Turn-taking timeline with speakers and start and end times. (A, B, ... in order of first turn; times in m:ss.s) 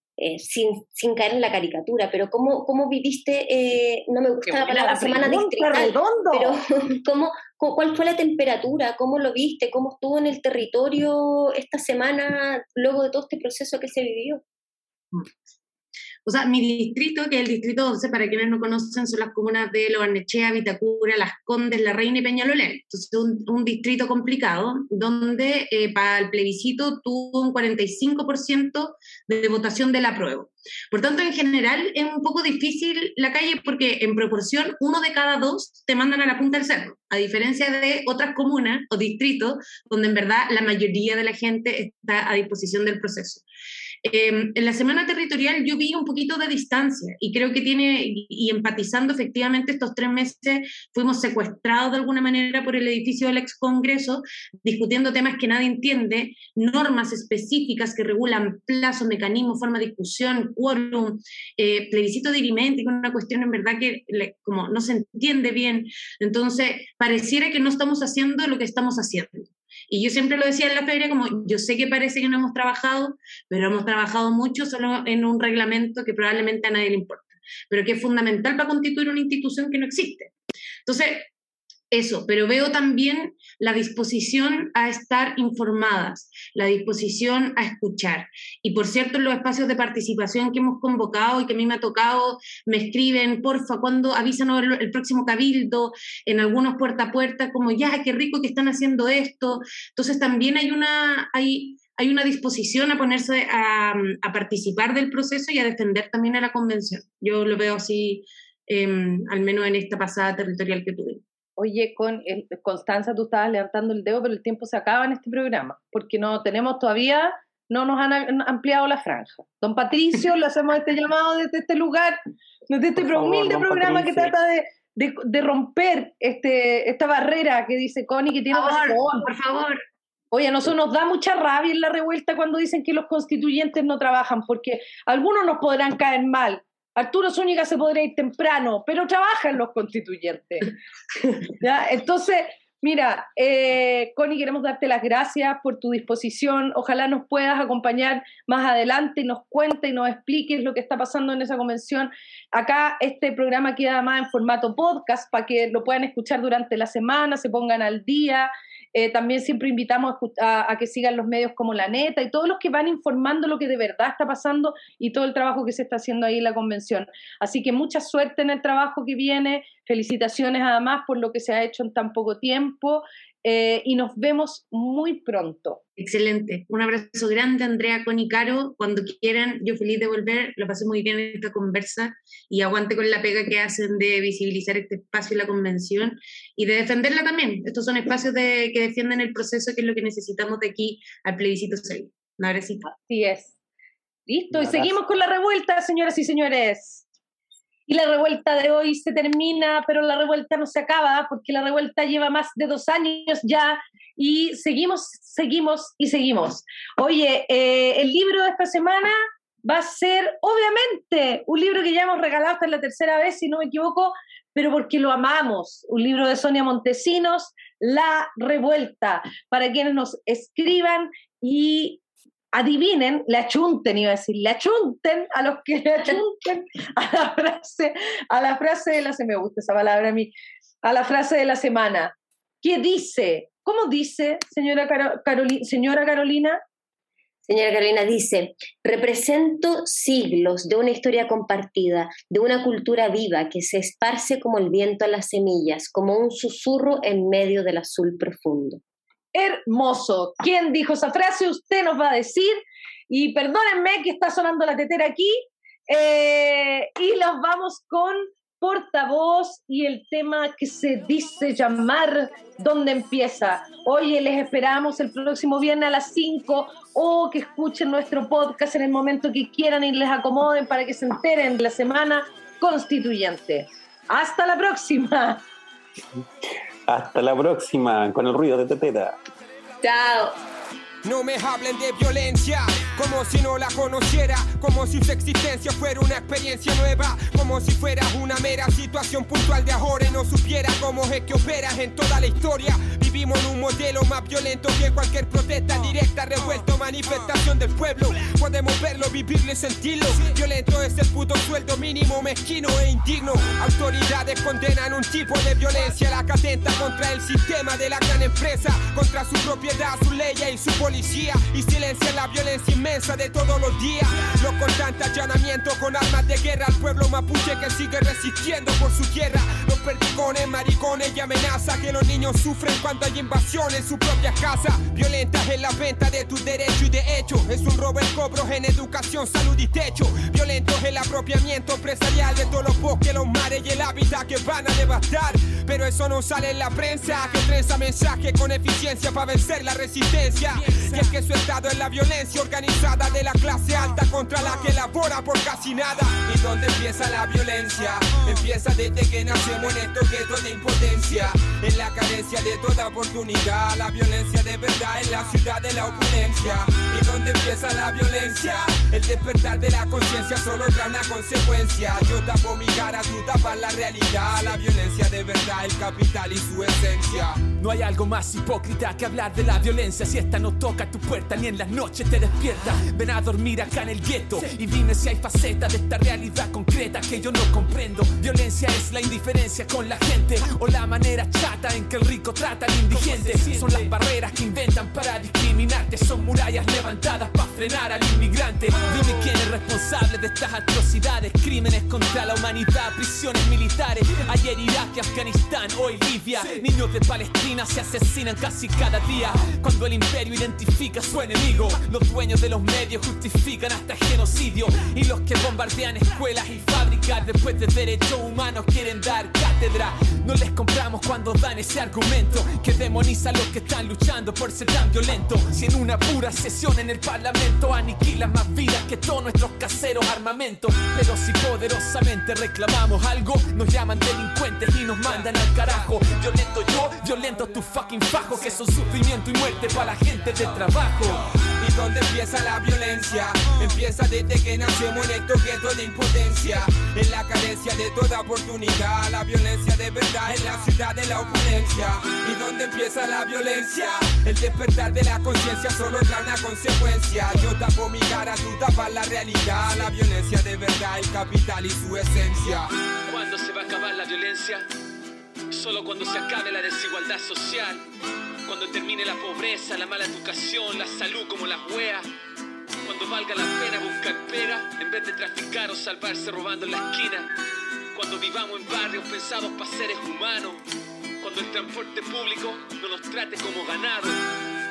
0:00.2-0:14.4 A
0:04.4-0:06.6 B
0:16.2-0:43.4 C
0:44.0-1:20.3 C
1:20.8-1:21.3 C
1:21.9-1:51.2 C
1:51.6-2:02.2 B
2:02.7-2:09.3 B
2:03.0-2:04.4 D
2:08.5-2:09.8 C
2:10.3-2:55.8 B
2:56.0-3:12.8 C
3:12.8-3:13.5 B
3:14.3-3:17.0 B
3:17.9-3:42.0 B
3:42.5-3:56.6 B
3:57.5-4:08.8 A
4:09.3-4:35.4 B
4:36.9-4:39.2 D
4:39.8-4:40.4 A
4:41.0-6:07.4 E
6:07.4-7:11.2 F
7:11.5-7:32.7 E
7:33.1-7:34.6 F
7:35.5-7:37.8 F
7:38.5-7:42.1 F
7:42.8-7:47.3 F
7:47.9-7:50.6 F
7:51.2-7:54.2 F